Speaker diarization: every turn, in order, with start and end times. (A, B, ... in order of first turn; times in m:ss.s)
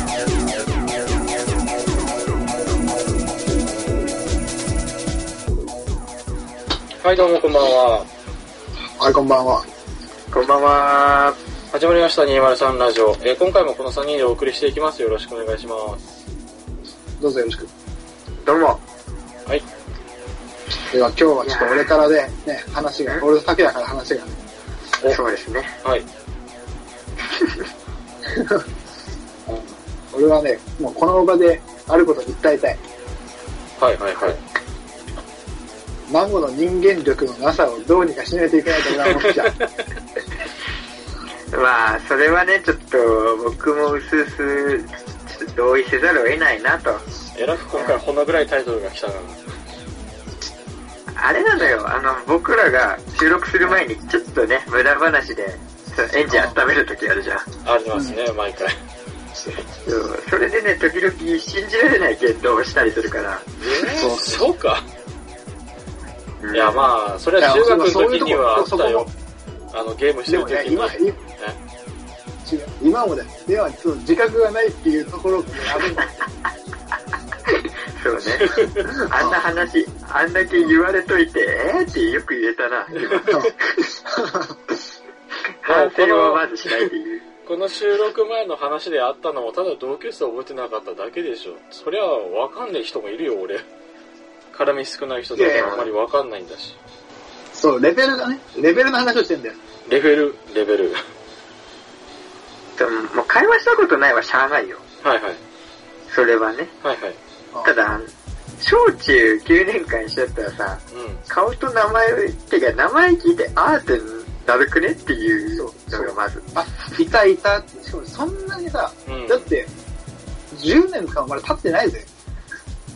0:07.0-0:08.1 A
0:09.0-0:09.6 B
0:10.3-0:11.4 C
0:11.7-0:16.2 A
0:17.2-0:17.7 B
0:18.4-0:18.8 C
0:20.9-0:24.4 B
0:21.4-0:21.9 C
0:25.0-0:25.7 C
0:27.4-0:27.6 C
0:29.5-0:32.8 B
0:33.8-0:34.4 A
0:36.1-0:39.5 B
0:39.0-0:39.6 A
0:41.5-0:47.0 C
0:47.4-0:49.4 A
0:47.7-0:48.0 C
0:51.2-0:57.5 C
0:56.3-0:56.6 B
0:57.6-0:58.8 A
0:57.9-0:58.2 B
0:59.6-1:03.5 C
1:03.6-1:04.9 A
1:03.9-1:04.5 B
1:06.4-1:06.9 C
1:06.5-1:09.1 A
1:07.4-1:09.1 B
1:09.7-1:11.6 A
1:10.3-1:11.2 B
1:12.4-1:16.0 B
1:17.6-1:24.0 C
1:18.4-1:18.9 A
1:18.9-1:19.4 B
1:23.2-1:24.6 B
1:25.6-1:27.2 C
1:25.6-1:26.9 A
1:27.4-1:33.6 A
1:34.5-1:36.8 A
1:35.4-1:35.7 B
1:35.5-1:35.9 C
1:37.5-1:39.6 B
1:39.9-1:41.0 A
1:42.8-1:44.8 C
1:45.0-1:45.4 A
1:46.1-1:46.7 C
1:46.8-1:47.2 A
1:47.6-1:57.0 C
1:50.9-1:51.2 A
1:55.5-1:59.7 B
1:59.1-1:59.5 A
2:00.5-2:02.1 B